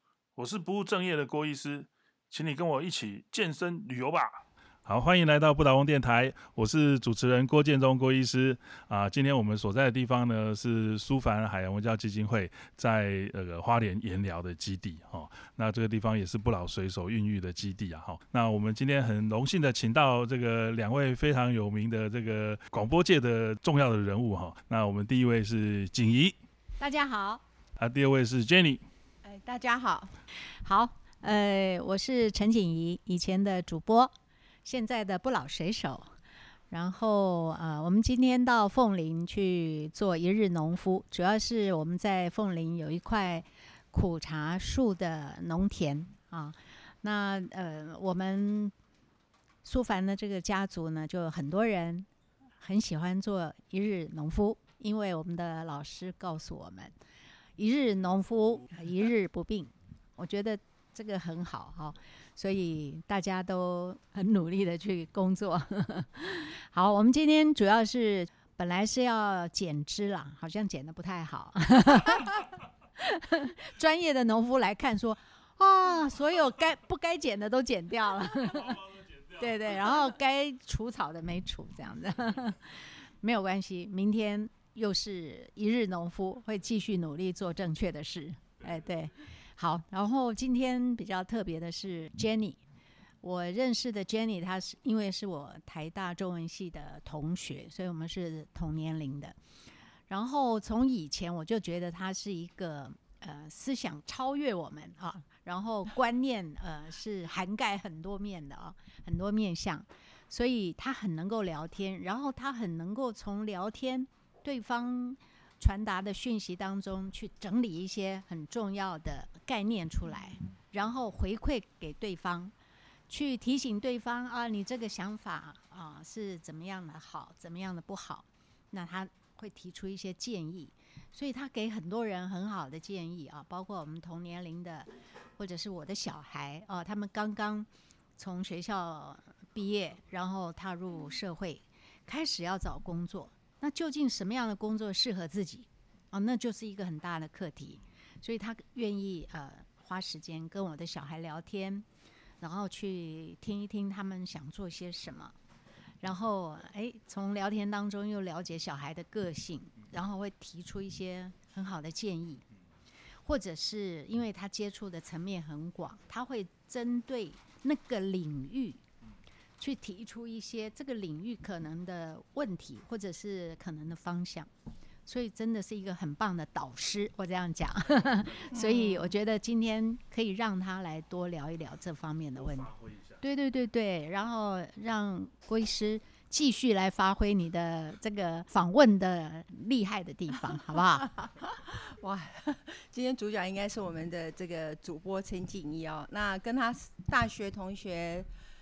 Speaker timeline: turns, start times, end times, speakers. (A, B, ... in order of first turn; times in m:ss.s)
0:00.4-0:26.4 A
0:26.8-0:27.4 B
0:27.8-0:28.8 A
0:29.2-0:30.2 C
0:30.6-0:34.1 B
0:34.6-0:36.1 B
0:36.7-0:48.7 B
0:49.6-0:52.1 B
0:52.6-0:56.9 B
0:57.6-1:32.6 B
1:33.2-1:39.4 B
1:40.1-2:02.5 B
2:03.1-2:31.9 B
2:32.4-2:35.4 B
2:36.0-2:42.4 B
2:43.2-2:48.8 B
2:49.6-2:54.5 B
2:55.1-3:11.1 B
2:58.5-2:59.1 C
3:02.7-3:03.1 A
3:11.2-3:18.3 C